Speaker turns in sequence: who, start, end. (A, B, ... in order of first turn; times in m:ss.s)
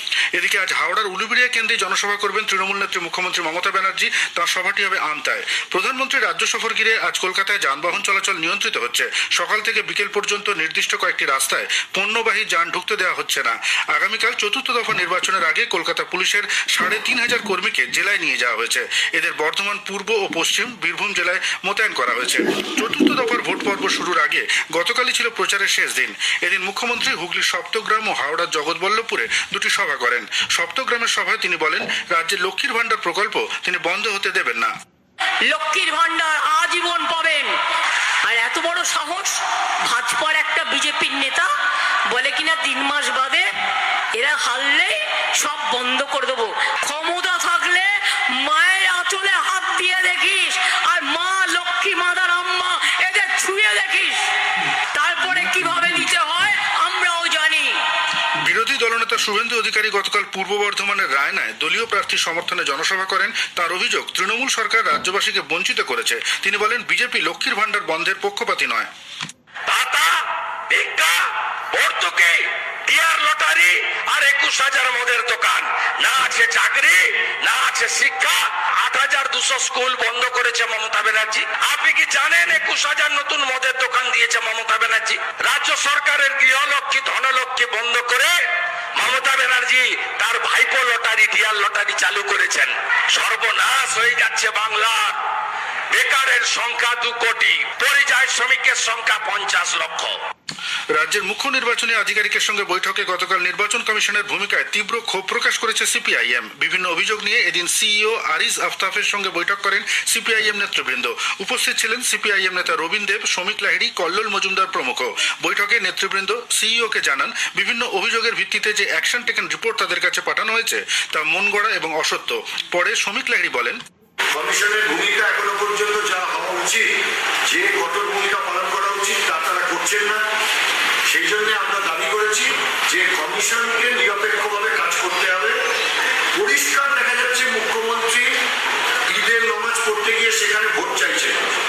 0:00.3-0:34.7 A
0:35.5-0:37.5 B
0:38.2-0:41.5 B
0:42.1-0:43.5 B
0:44.1-0:54.2 B
0:54.9-0:57.8 B
0:58.4-1:08.9 A
1:09.7-1:10.1 C
1:10.7-1:11.2 C
1:11.7-1:28.3 C
1:29.0-1:35.2 C
1:35.9-1:40.2 C
1:40.9-2:03.8 A
2:04.3-2:06.8 D
2:07.5-2:10.2 D
2:11.1-2:15.5 D
2:16.4-2:18.2 D
2:19.1-2:21.4 D